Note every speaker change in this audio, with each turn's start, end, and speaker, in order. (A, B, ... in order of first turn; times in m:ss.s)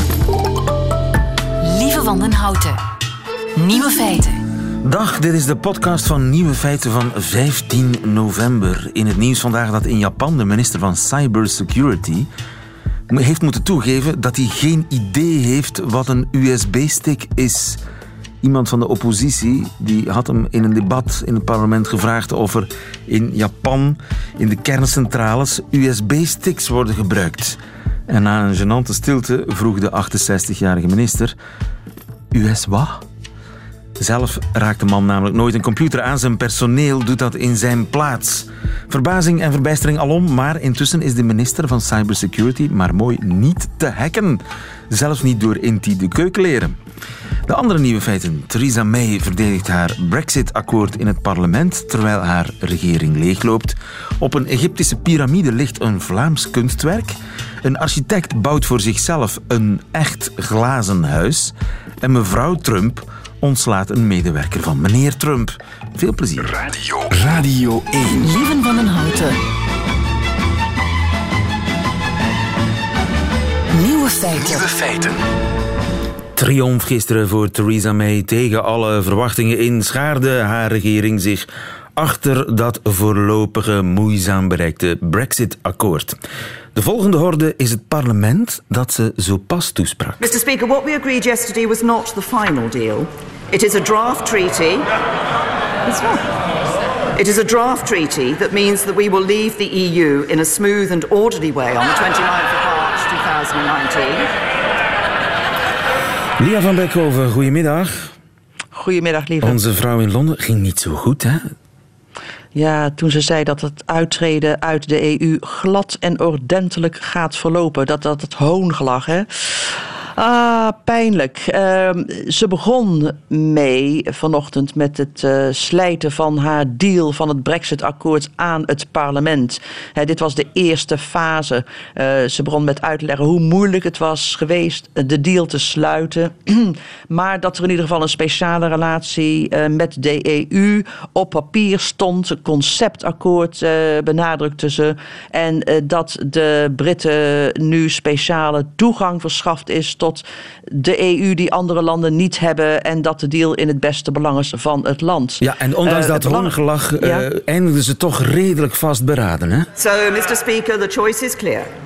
0:01.6-0:02.8 A
0:03.6-0:04.4 A
0:04.8-0:12.3 B
0:13.1-0:17.8 B
0:18.4-0:31.4 B
0:32.3-0:33.0 B
0:34.0-0:46.8 B
0:47.5-1:06.5 B
1:06.4-1:08.3 C
1:08.1-1:09.4 A
1:13.7-1:14.7 A
1:14.3-1:15.2 C
1:16.4-1:26.2 B
1:26.8-1:30.2 B
1:30.2-1:34.9 D
1:35.9-1:36.2 D
1:37.2-1:44.3 D
1:46.4-1:48.1 B
1:48.8-1:49.6 E
1:49.4-1:51.4 B
1:52.5-2:37.3 E
2:35.4-2:39.7 B
2:39.8-2:41.7 D